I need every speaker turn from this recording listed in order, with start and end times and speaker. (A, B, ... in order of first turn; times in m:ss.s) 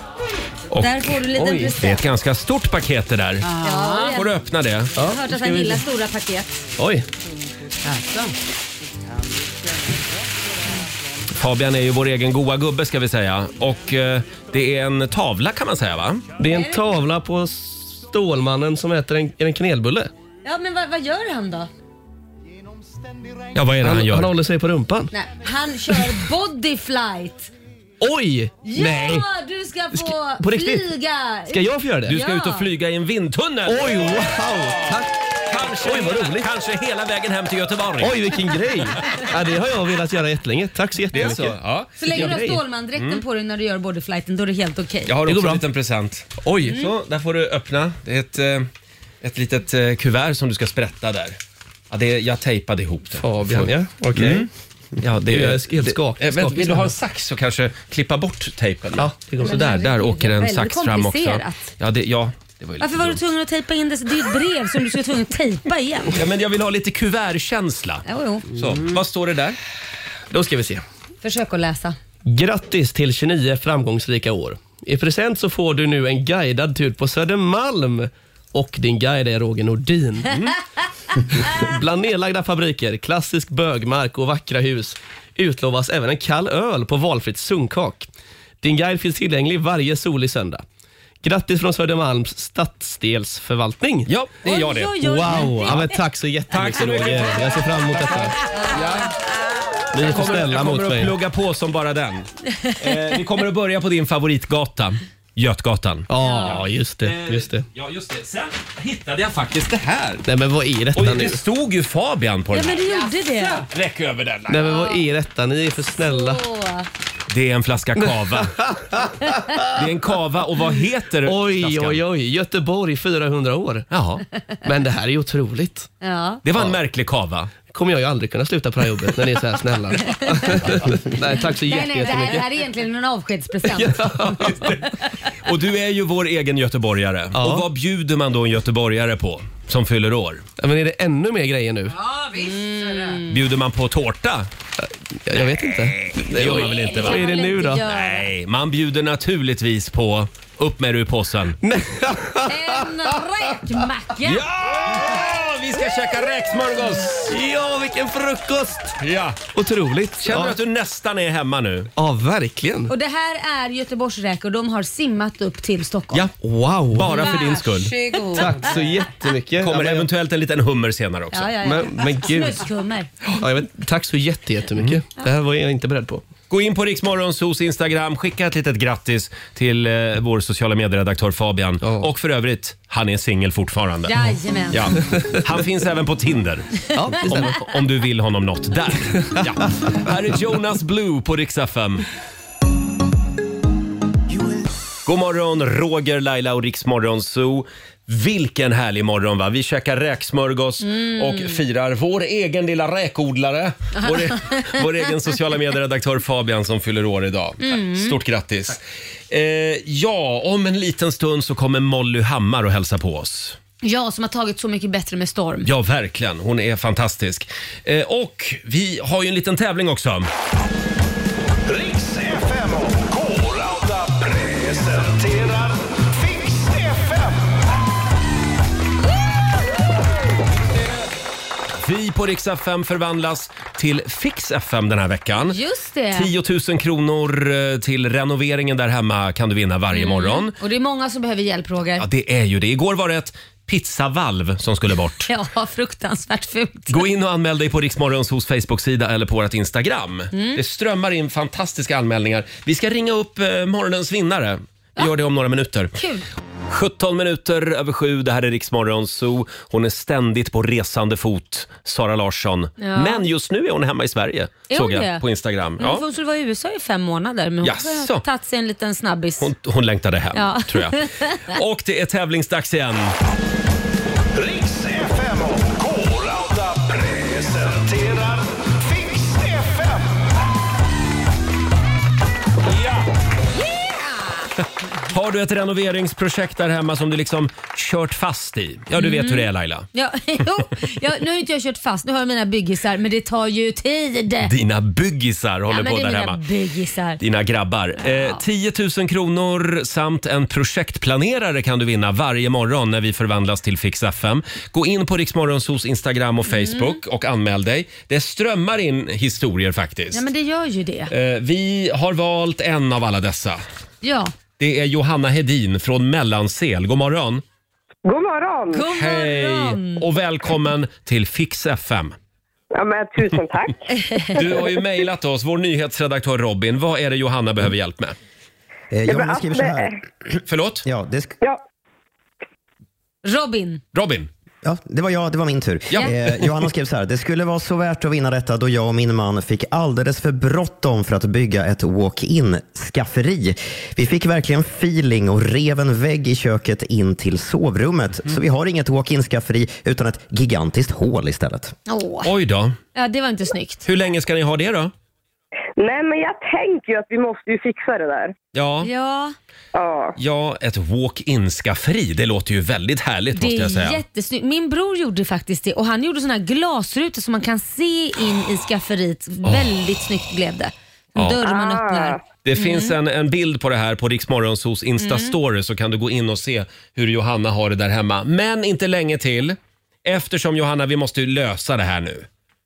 0:00.7-0:01.2 A
0:00.8-0:02.0 B
0:01.4-0:01.8 C
0:01.8-0:03.5 A
0:03.4-0:04.2 D
0:03.6-0:04.3 B
0:04.1-0:05.0 A
0:05.0-0:05.8 C
0:05.0-0:06.6 B
0:06.8-0:07.1 C
0:07.8-0:08.4 D
0:11.4-0:16.3 A
0:16.4-0:20.1 C
0:16.5-0:16.9 B
0:20.4-0:21.7 B
0:23.5-0:24.3 A
0:23.8-0:25.1 C
0:25.1-0:27.5 B
0:28.0-0:29.3 C
0:28.6-0:32.7 B
0:29.9-0:30.8 C
0:31.5-0:32.2 C
0:32.1-0:38.4 A
0:33.7-0:35.1 C
0:35.8-0:36.5 C
0:38.0-0:41.6 C
0:41.1-0:42.4 A
0:42.0-0:45.1 B
0:42.1-0:42.6 C
0:43.0-0:43.2 A
0:45.1-0:48.7 A
0:45.3-0:45.6 C
0:46.4-0:46.8 C
0:49.2-0:51.4 A
0:51.9-1:03.2 A
0:53.2-0:54.5 C
0:55.3-0:56.9 C
0:59.0-0:59.5 C
0:59.4-1:01.7 B
1:02.8-1:06.2 B
1:06.1-1:08.0 A
1:08.0-1:08.5 B
1:08.6-1:09.6 A
1:10.3-1:10.8 C
1:11.2-1:12.0 B
1:12.2-1:20.5 C
1:21.4-1:28.1 C
1:28.6-1:30.6 C
1:31.2-1:34.1 C
1:34.1-1:35.8 A
1:34.4-1:36.0 B
1:35.0-1:38.4 C
1:36.5-1:39.1 A
1:39.9-1:41.1 C
1:39.9-1:50.2 A
1:46.1-1:47.7 C
1:46.2-1:46.6 B
1:50.2-1:51.4 C
1:51.0-1:54.8 A
1:52.5-1:53.6 B
1:54.5-1:56.4 C
1:54.7-1:55.0 B
1:56.0-1:56.9 B
1:57.3-1:58.6 A
1:58.0-1:59.8 C
1:59.7-2:02.0 A
2:01.3-2:03.9 C
2:03.9-2:04.2 A
2:04.6-2:05.9 C
2:06.0-2:06.4 B
2:06.4-2:07.5 A
2:07.6-2:12.4 C
2:11.7-2:14.7 B
2:13.7-2:14.8 C
2:14.4-2:14.7 A
2:15.4-2:20.4 A
2:17.4-2:17.7 C
2:20.6-2:22.0 C
2:22.1-2:23.2 D
2:22.4-2:23.4 B
2:23.3-2:24.5 A
2:25.3-2:27.8 C
2:25.4-2:27.3 A
2:26.5-2:28.3 B
2:27.8-2:31.6 A
2:31.6-2:32.8 C
2:32.5-2:34.4 B
2:34.2-2:37.4 A
2:37.3-2:39.0 C
2:39.0-2:39.4 A
2:39.5-2:40.6 C
2:40.2-2:41.9 A
2:42.0-2:42.9 C
2:42.9-2:46.2 B
2:46.4-2:47.2 C
2:46.9-2:47.9 A
2:47.2-2:47.6 B
2:47.8-2:48.7 D
2:48.3-2:50.1 C
2:49.6-2:51.6 A
2:51.3-2:53.1 B
2:51.6-2:52.6 C
2:53.3-2:56.2 C
2:56.5-3:12.1 A
3:01.8-3:02.1 C
3:04.1-3:04.9 B
3:07.0-3:07.7 C
3:15.1-3:33.6 A
3:20.8-3:21.6 B
3:24.0-3:24.8 B
3:27.6-3:28.2 B
3:33.8-3:35.7 B
3:35.6-3:40.3 A
3:41.7-3:47.4 E
3:51.8-3:55.6 A
3:55.4-3:56.3 B
3:56.1-4:00.6 A
3:59.9-4:02.1 B
4:02.0-4:05.3 A
4:05.3-4:07.0 B
4:06.9-4:15.9 A
4:10.3-4:10.6 B
4:16.0-4:16.2 B
4:16.7-4:26.0 A
4:22.8-4:23.2 B
4:24.7-4:25.2 B
4:25.8-4:29.5 B
4:27.6-4:28.2 A
4:29.4-4:33.2 A
4:30.3-4:31.4 B
4:34.3-4:40.2 E
4:45.1-4:49.9 A
4:49.0-4:54.5 B
4:54.4-4:56.4 A
4:55.7-4:57.2 B
4:57.2-5:10.2 A
4:58.0-4:58.4 B
5:06.5-5:07.0 B
5:10.1-5:11.1 B
5:11.1-5:13.6 A
5:14.0-5:14.3 B
5:14.6-5:17.4 A
5:18.0-5:18.8 F
5:18.7-5:20.0 B
5:18.9-5:22.2 A
5:22.7-5:23.9 F
5:23.9-5:24.4 B
5:24.3-5:28.2 A
5:28.9-5:29.9 G
5:29.1-5:30.0 F
5:30.5-5:30.8 A
5:30.8-5:31.4 G
5:33.2-5:33.8 B
5:33.9-5:34.3 A
5:34.6-5:51.7 G
5:35.9-5:36.4 A
5:51.9-5:52.3 B
5:52.2-5:52.8 A
5:53.0-5:53.8 B
5:53.8-5:54.9 A
5:55.8-5:58.4 F
5:58.5-5:58.9 A
5:58.8-5:59.4 B
5:59.7-6:00.2 F
6:00.2-6:04.0 A
6:03.4-6:13.0 B
6:11.4-6:12.2 F
6:12.4-6:22.3 A
6:15.0-6:15.4 B